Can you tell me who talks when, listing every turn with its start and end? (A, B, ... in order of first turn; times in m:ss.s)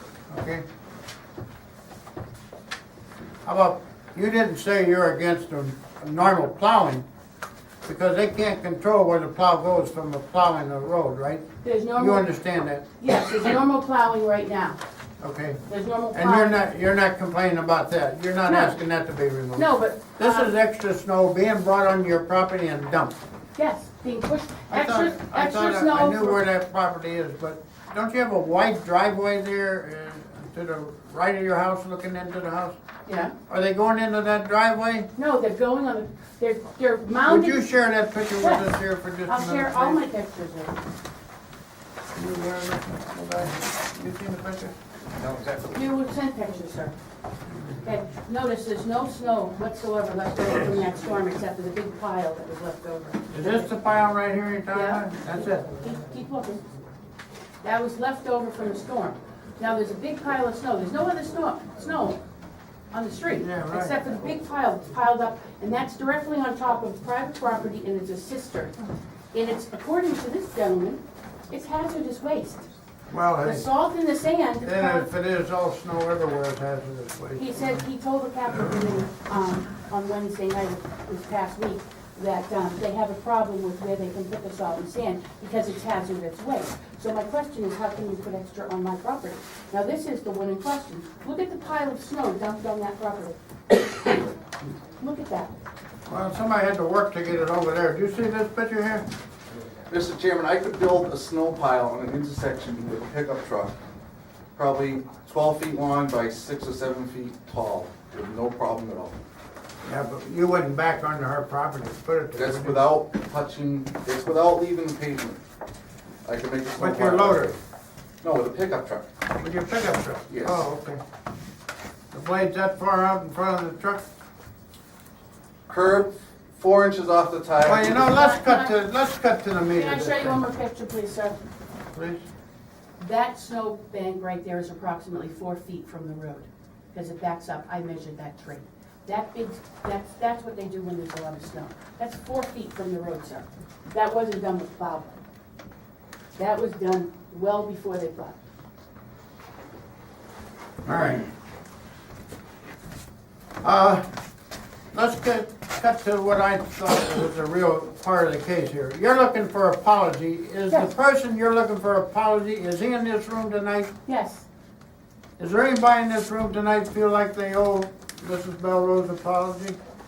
0:00.3-0:00.6 A
0:03.4-0:07.0 A
0:07.8-0:11.4 A
0:11.6-0:12.3 B
0:12.0-0:12.8 A
0:13.0-0:14.8 B
0:15.2-0:15.6 A
0:15.7-0:16.6 B
0:16.1-0:23.2 A
0:18.4-0:18.8 B
0:19.5-0:20.5 B
0:23.6-0:26.4 B
0:24.7-0:32.8 A
0:33.0-0:33.3 B
0:33.5-0:35.1 A
0:35.2-0:37.7 B
0:37.2-0:40.0 A
0:38.4-0:38.7 B
0:39.2-0:40.8 B
0:42.1-0:44.8 A
0:45.2-0:45.8 C
0:45.7-0:46.9 B
0:47.5-0:47.8 A
0:47.8-0:53.6 B
0:53.3-0:55.7 A
0:54.7-0:55.1 B
0:55.6-0:56.6 B
0:57.6-1:02.2 B
1:02.9-1:08.7 B
1:03.4-1:04.0 A
1:09.3-1:12.7 B
1:13.1-1:13.6 A
1:13.4-1:15.1 B
1:14.6-1:17.8 A
1:17.4-1:34.2 B
1:35.0-1:35.5 B
1:36.1-1:39.0 A
1:39.9-1:43.8 C
1:44.6-1:49.2 C
1:49.8-1:52.8 A
1:52.4-1:55.4 C
1:56.2-1:57.6 C
1:56.8-1:57.5 A
1:58.2-1:59.0 C
1:59.4-2:01.0 A
2:00.3-2:00.6 C
2:02.1-2:04.0 A
2:05.7-2:08.1 C
2:07.6-2:10.4 A
2:07.9-2:08.8 B
2:09.7-2:11.4 B
2:11.9-2:12.2 A
2:13.0-2:25.2 B
2:26.4-2:28.4 B
2:30.8-2:31.2 A
2:33.6-2:34.0 A
2:34.9-2:43.9 A
2:44.0-2:44.4 B
2:45.4-2:49.8 A